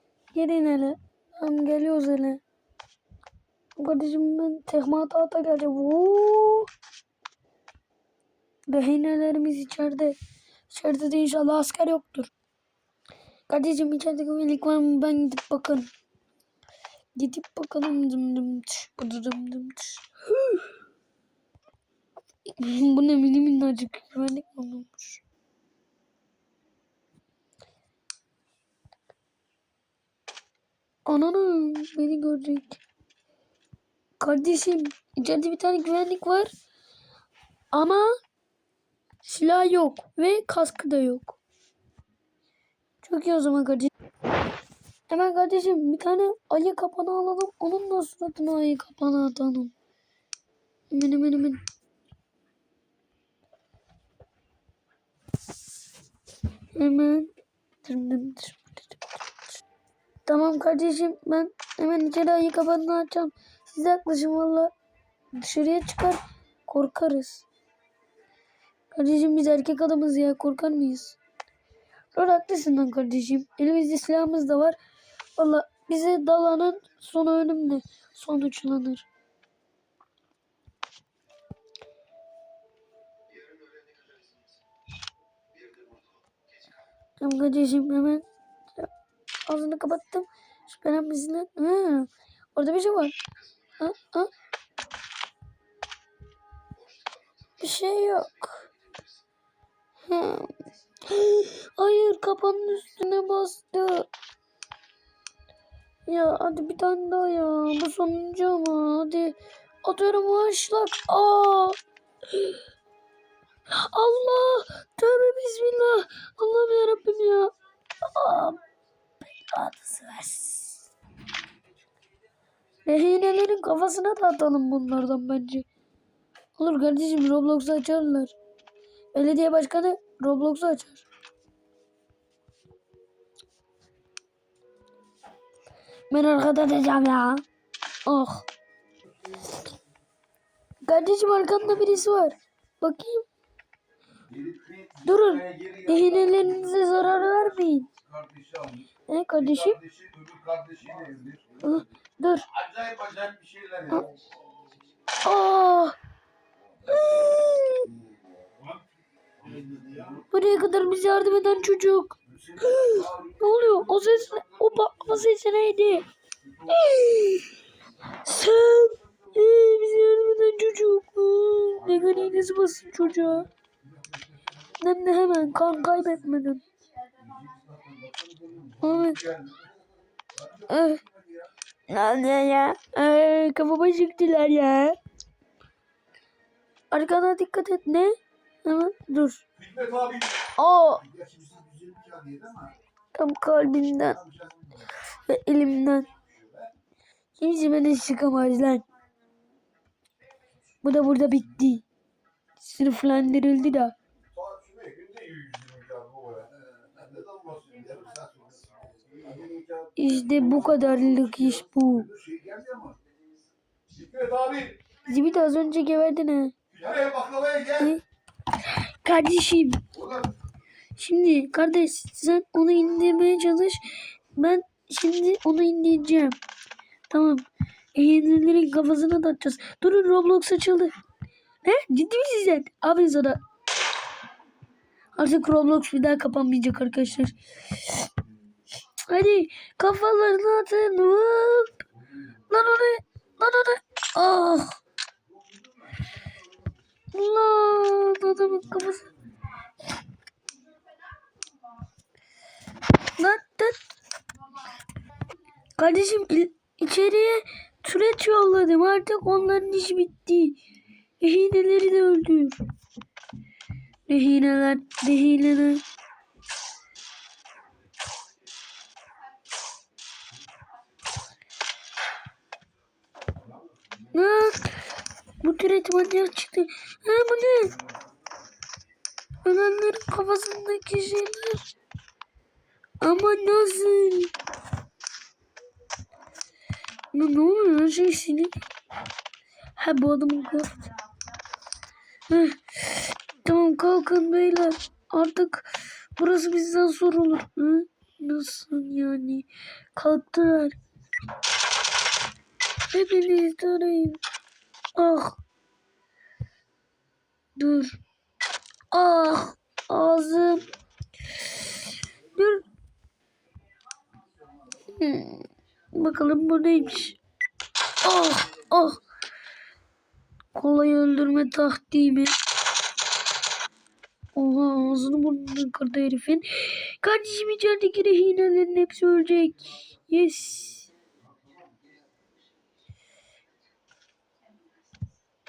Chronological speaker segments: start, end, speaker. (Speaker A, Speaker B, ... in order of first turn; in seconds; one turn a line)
Speaker A: 0.3-2.4
Speaker A: 3.8-6.7
Speaker A: 8.7-10.2
Speaker A: 10.7-12.3
Speaker A: 13.5-15.9
Speaker A: 17.2-20.7
Speaker A: 22.5-25.2
Speaker A: 31.1-32.8
Speaker A: 34.2-36.5
Speaker A: 37.7-38.1
Speaker A: 39.2-41.4
Speaker A: 43.0-43.9
Speaker A: 45.1-49.7
Speaker A: 50.9-51.6
Speaker A: 56.8-57.3
Speaker A: 57.8-59.3
Speaker A: 60.3-64.7
Speaker A: 65.3-67.5
Speaker A: 68.9-71.2
Speaker A: 72.1-74.8
Speaker A: 75.4-79.1
Speaker A: 87.2-88.9
Speaker A: 89.5-93.2
Speaker A: 93.8-94.3
Speaker A: 97.6-98.7
Speaker A: 100.1-104.1
Speaker A: 106.1-111.8
Speaker A: 112.3-112.6
Speaker A: 113.7-117.5
Speaker A: 118.0-118.6
Speaker A: 119.3-120.8
Speaker A: 122.8-125.7
Speaker A: 126.6-128.3
Speaker A: 129.1-131.1
Speaker A: 136.1-137.4
Speaker A: 138.1-138.5
Speaker A: 140.8-143.3
Speaker B: 144.3-146.4
Speaker A: 145.0-147.9
Speaker B: 148.0-148.8
Speaker A: 149.1-149.8
Speaker B: 149.7-151.7
Speaker A: 151.6-152.5
Speaker B: 152.5-154.2
Speaker A: 155.2-156.0
Speaker A: 156.9-157.9
Speaker B: 159.4-160.2
Speaker A: 160.3-166.1
Speaker B: 162.4-163.4
Speaker A: 166.7-173.5
Speaker A: 174.8-176.6
Speaker B: 177.2-181.5
Speaker A: 178.8-179.2
Speaker A: 180.7-181.0
Speaker A: 181.9-185.0
Speaker A: 186.9-189.4
Speaker B: 189.6-190.3
Speaker A: 190.6-191.1
Speaker B: 191.0-192.7
Speaker A: 193.1-194.2
Speaker B: 194.3-194.7
Speaker A: 195.1-196.1
Speaker A: 197.4-198.8
Speaker A: 200.8-201.8
Speaker A: 202.6-203.9
Speaker B: 204.3-210.1
Speaker A: 210.0-212.1
Speaker B: 212.1-213.0
Speaker B: 213.9-214.8
Speaker A: 215.0-216.6
Speaker B: 216.7-217.8
Speaker A: 217.7-219.9
Speaker A: 221.0-226.4
Speaker A: 227.1-230.9
Speaker A: 231.6-233.4
Speaker A: 235.2-238.1
Speaker A: 239.0-241.8
Speaker A: 242.5-244.8
Speaker A: 247.1-249.1
Speaker A: 253.1-253.8
Speaker A: 255.8-260.6
Speaker A: 261.2-262.6
Speaker A: 264.1-265.8
Speaker A: 274.1-274.9
Speaker A: 275.4-277.8
Speaker A: 279.4-281.7
Speaker A: 283.0-284.3
Speaker A: 287.1-288.5
Speaker A: 289.8-290.9
Speaker A: 292.3-300.8
Speaker A: 302.9-304.2
Speaker A: 304.9-305.4
Speaker A: 307.6-308.0
Speaker A: 308.9-310.7
Speaker A: 312.3-312.7
Speaker A: 314.8-317.2
Speaker A: 318.0-319.0
Speaker A: 320.5-322.4
Speaker A: 324.4-330.9